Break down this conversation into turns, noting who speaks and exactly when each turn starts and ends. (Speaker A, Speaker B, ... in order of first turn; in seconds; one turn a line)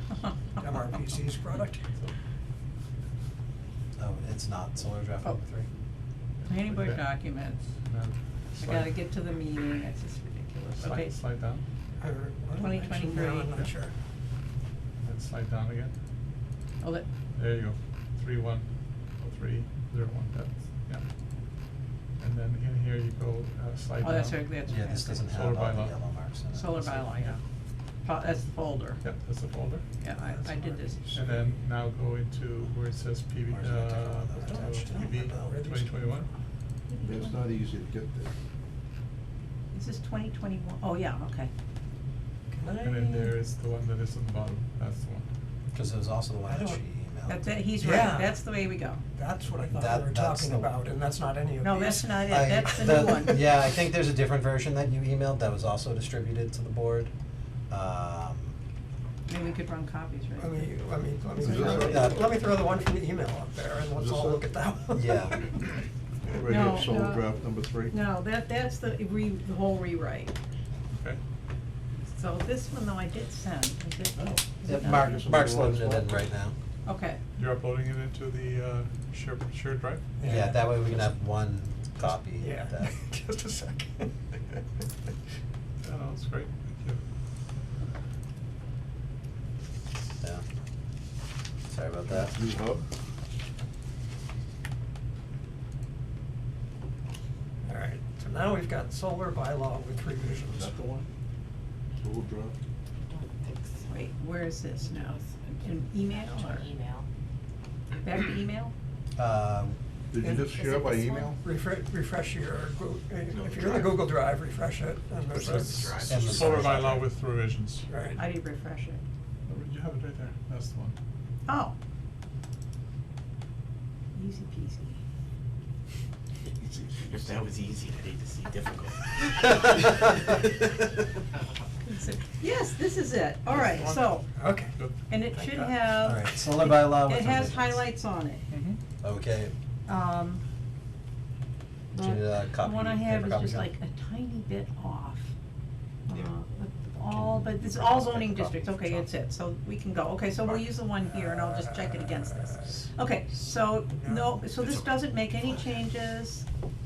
Speaker A: 0.6-1.8
Speaker B: 4.0-5.7
Speaker C: 6.4-7.1
Speaker D: 6.5-7.6
Speaker C: 7.8-8.9
Speaker D: 8.6-11.1
Speaker C: 10.8-11.6
Speaker A: 12.0-13.9
Speaker D: 12.5-13.5
Speaker C: 15.0-15.9
Speaker D: 16.8-17.1
Speaker C: 17.3-18.7
Speaker C: 19.2-21.1
Speaker C: 22.2-24.4
Speaker D: 24.0-25.3
Speaker B: 24.7-27.1
Speaker C: 25.2-26.0
Speaker D: 26.5-27.4
Speaker D: 28.1-29.0
Speaker C: 29.0-29.9
Speaker D: 30.0-31.0
Speaker A: 30.1-31.5
Speaker C: 31.1-36.3
Speaker B: 33.5-35.1
Speaker A: 34.4-36.3
Speaker D: 36.9-37.4
Speaker E: 37.1-38.3
Speaker D: 39.7-41.5
Speaker A: 42.5-43.3
Speaker C: 42.8-45.2
Speaker B: 45.7-47.5
Speaker A: 46.5-46.8
Speaker D: 47.3-49.0
Speaker A: 47.8-48.4
Speaker A: 49.1-52.2
Speaker B: 49.6-50.7
Speaker D: 51.6-53.5
Speaker B: 52.3-57.1
Speaker B: 57.7-58.5
Speaker D: 59.3-60.8
Speaker A: 60.4-65.5
Speaker E: 61.4-62.3
Speaker D: 61.4-62.1
Speaker B: 61.6-62.2
Speaker E: 63.9-64.5
Speaker B: 64.9-65.4
Speaker E: 66.3-68.0
Speaker D: 66.4-67.3
Speaker D: 67.9-70.4
Speaker C: 70.9-71.2
Speaker D: 72.1-75.2
Speaker E: 74.2-76.1
Speaker B: 74.7-76.5
Speaker D: 76.9-77.2
Speaker C: 77.4-80.0
Speaker A: 80.2-80.7
Speaker B: 80.2-82.9
Speaker A: 82.0-84.8
Speaker C: 85.8-87.0
Speaker B: 91.7-92.3
Speaker E: 92.1-92.9
Speaker A: 97.6-100.8
Speaker E: 100.5-101.1
Speaker E: 102.0-102.5
Speaker F: 103.1-104.1
Speaker D: 103.9-106.7
Speaker F: 104.8-107.1
Speaker D: 108.0-108.7
Speaker B: 109.2-109.8
Speaker E: 110.1-111.4
Speaker A: 110.2-110.6
Speaker D: 110.7-111.2
Speaker A: 111.4-116.1
Speaker G: 113.4-114.0
Speaker G: 115.4-117.0
Speaker C: 115.4-117.9
Speaker B: 116.1-116.9
Speaker A: 117.9-118.2
Speaker D: 118.2-119.0
Speaker C: 119.5-121.0
Speaker D: 121.5-121.8
Speaker D: 124.1-125.0
Speaker G: 127.1-129.5
Speaker D: 131.9-134.3
Speaker C: 133.5-134.2
Speaker A: 134.4-134.8
Speaker C: 134.7-135.0
Speaker D: 135.1-138.5
Speaker A: 135.3-135.8
Speaker B: 136.0-137.8
Speaker C: 138.5-138.8
Speaker B: 139.0-139.5
Speaker D: 139.9-140.4
Speaker D: 141.9-145.3
Speaker B: 142.0-143.7
Speaker D: 146.1-156.4
Speaker B: 147.1-149.1
Speaker A: 150.4-152.9
Speaker A: 153.9-154.4